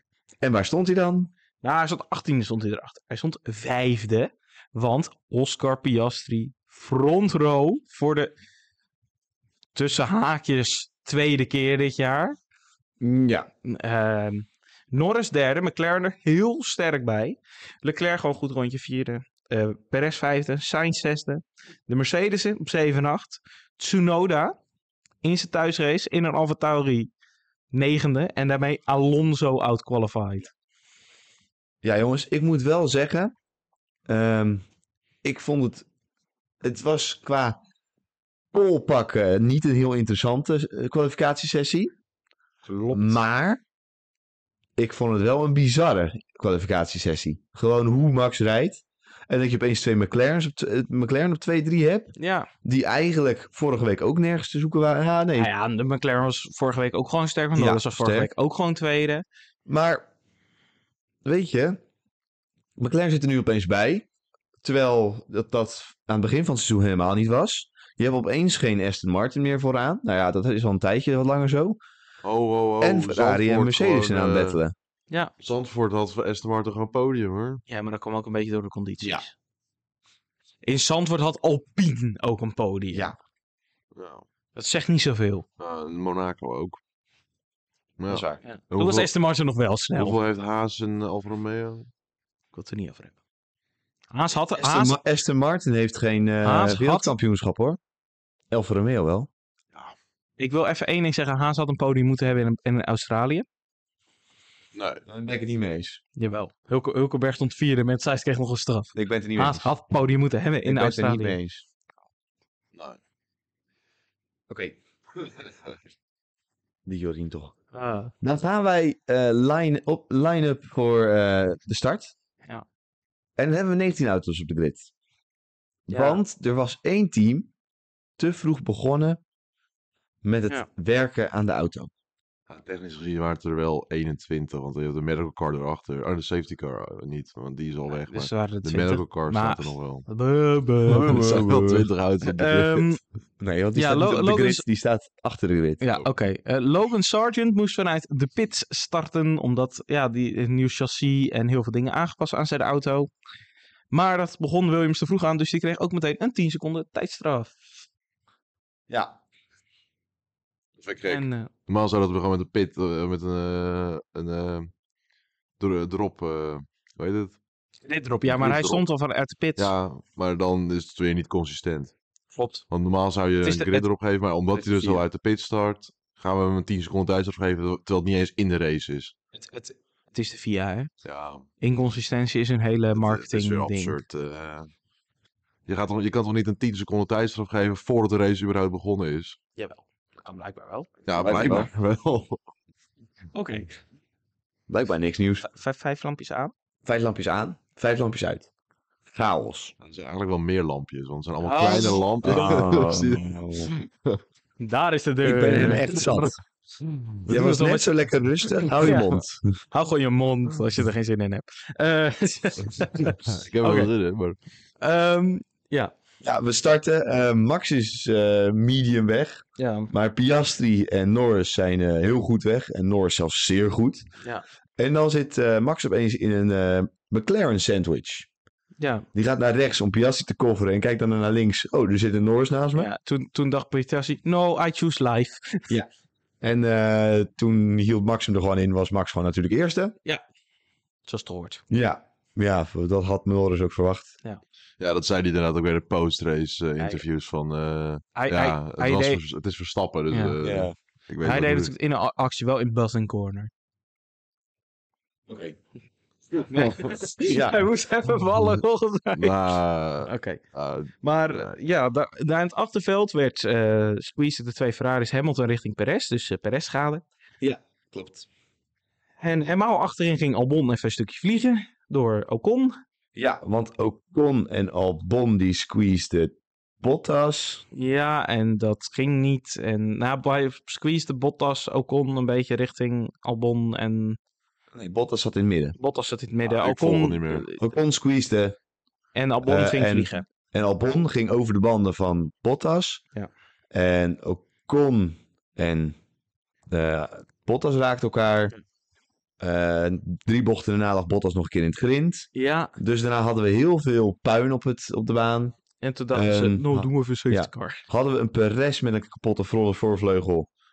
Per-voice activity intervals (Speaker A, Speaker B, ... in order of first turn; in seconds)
Speaker A: 0.4-1.3, 13.0-13.5, 31.8-33.3, 34.1-34.6, 35.2-35.9, 36.6-37.6, 38.5-41.9, 42.9-43.6, 44.8-55.5, 57.5-58.3, 59.7-60.0, 61.2-61.8, 62.8-64.0, 64.6-71.8, 72.8-74.7, 88.1-88.4, 94.6-97.8, 98.5-99.3, 105.0-106.0, 108.9-109.7, 110.6-111.6, 114.5-114.8, 116.8-117.5, 118.2-122.1, 123.4-124.9, 125.9-127.5, 128.2-129.2, 130.2-131.9, 140.9-141.9, 143.4-145.8, 158.9-159.2, 174.5-175.0, 191.2-191.7, 194.7-195.4, 196.8-198.5, 199.1-199.7, 202.2-203.7, 205.2-206.4, 207.2-209.6, 216.2-224.1, 224.8-228.3, 229.1-232.9, 236.4-239.9, 241.7-244.1, 250.4-250.7, 255.3-255.6, 256.3-257.6, 267.4-268.3, 273.1-277.6, 284.7-285.7, 287.6-288.6, 289.4-293.0, 293.7-295.9, 296.7-298.5, 299.4-305.5, 306.1-310.5
Speaker B: 1.6-8.3, 9.7-12.3, 13.6-24.6, 25.2-27.1, 27.7-30.5, 42.6-43.2, 52.1-52.5, 55.4-59.2, 77.7-79.3, 80.6-83.1, 84.5-85.4, 88.4-90.2, 92.5-93.1, 94.1-95.0, 96.4-97.1, 100.4-103.5, 106.2-111.4, 117.7-118.1, 125.9-126.2, 137.9-141.2, 142.2-143.0, 143.7-144.6, 145.8-153.1, 153.9-157.7, 161.0-161.5, 167.8-169.7, 172.3-172.6, 173.4-173.8, 179.3-180.9, 181.6-184.0, 189.6-190.9, 193.3-193.7, 195.4-196.5, 201.4-202.7, 204.6-206.3, 207.3-207.9, 208.6-213.9, 214.8-215.9, 219.6-219.9, 228.8-229.1, 232.7-235.7, 241.1-241.6, 248.1-249.2, 250.1-250.3, 251.2-253.5, 256.5-260.4, 261.0-267.0, 269.2-272.7, 277.7-284.2, 285.8-287.6, 289.1-290.2, 302.3-302.7, 305.8-307.8
Speaker C: 72.2-74.6, 75.4-77.6, 83.9-84.2, 85.6-86.8, 88.0-89.1, 89.9-91.9, 104.7-105.0, 132.5-140.1, 140.9-142.9, 160.8-164.7, 165.6-167.4, 168.2-168.8, 169.6-171.9, 172.7-179.1, 181.0-181.4, 182.9-184.7, 185.7-189.4, 191.1-192.4, 199.8-204.2, 206.8-207.2, 213.2-214.4, 244.8-251.7, 259.1-261.4, 286.4-287.5